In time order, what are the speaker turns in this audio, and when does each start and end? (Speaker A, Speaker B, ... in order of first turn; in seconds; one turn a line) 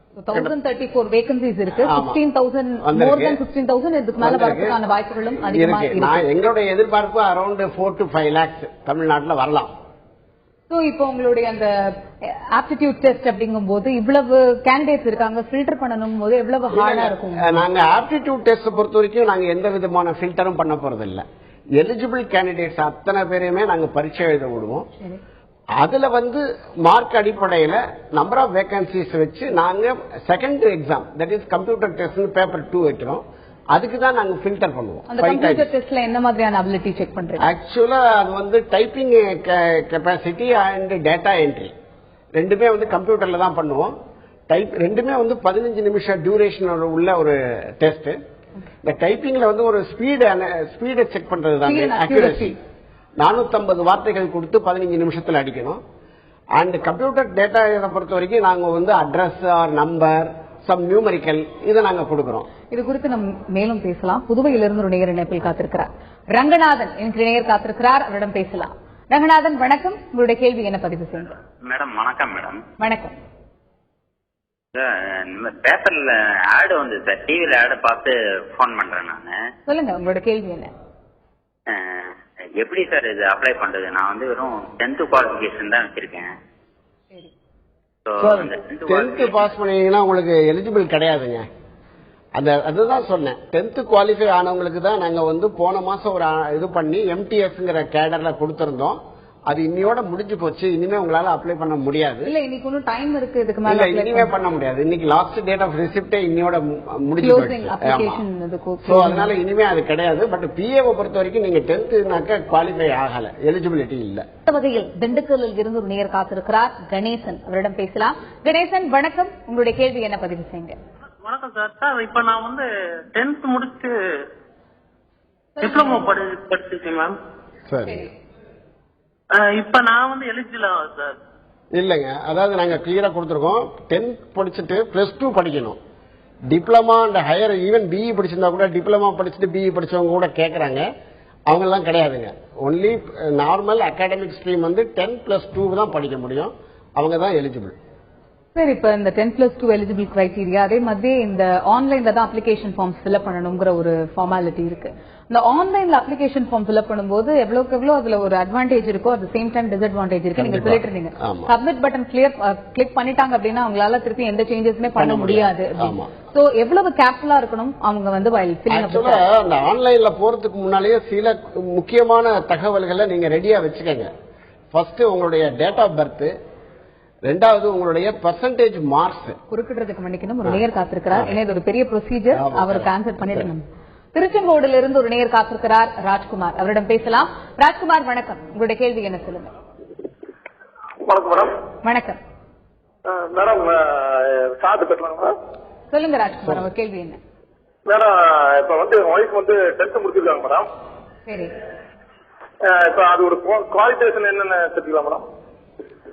Speaker A: 0.2-6.2
Speaker B: 1.8-2.2
Speaker B: 2.8-3.4
Speaker B: 4.2-4.8
Speaker B: 5.5-9.7
Speaker A: 10.7-17.6
Speaker B: 16.7-21.2
Speaker B: 21.8-24.9
Speaker B: 25.8-35.7
Speaker A: 35.1-37.5
Speaker B: 37.4-41.7
Speaker B: 42.4-43.9
Speaker B: 44.5-48.2
Speaker B: 48.8-52.6
Speaker A: 51.6-52.5
Speaker B: 53.2-55.8
Speaker B: 56.5-62.5
Speaker A: 62.7-71.3
Speaker C: 71.6-72.6
Speaker A: 72.8-73.2
Speaker C: 74.8-79.3
Speaker A: 79.7-80.7
Speaker C: 81.7-82.1
Speaker C: 82.6-86.3
Speaker C: 88.1-89.4
Speaker B: 88.2-91.5
Speaker B: 92.4-102.3
Speaker A: 102.2-104.3
Speaker B: 103.7-108.2
Speaker A: 107.2-109.3
Speaker B: 108.8-114.3
Speaker A: 114.5-120.8
Speaker D: 121.2-123.9
Speaker A: 125.6-126.1
Speaker D: 125.6-127.1
Speaker B: 127.7-128.0
Speaker D: 129.3-131.2
Speaker B: 131.7-135.8
Speaker B: 136.5-140.9
Speaker B: 141.5-147.8
Speaker A: 148.6-169.2
Speaker B: 160.4-161.5
Speaker B: 165.0-166.1
Speaker B: 168.7-174.1
Speaker B: 174.7-176.3
Speaker B: 177.3-179.4
Speaker A: 179.5-189.5
Speaker B: 182.3-183.5
Speaker E: 191.0-191.5
Speaker A: 191.8-192.2
Speaker E: 193.1-195.3
Speaker A: 195.9-197.2
Speaker E: 197.9-200.7
Speaker A: 201.3-201.5
Speaker E: 202.6-205.2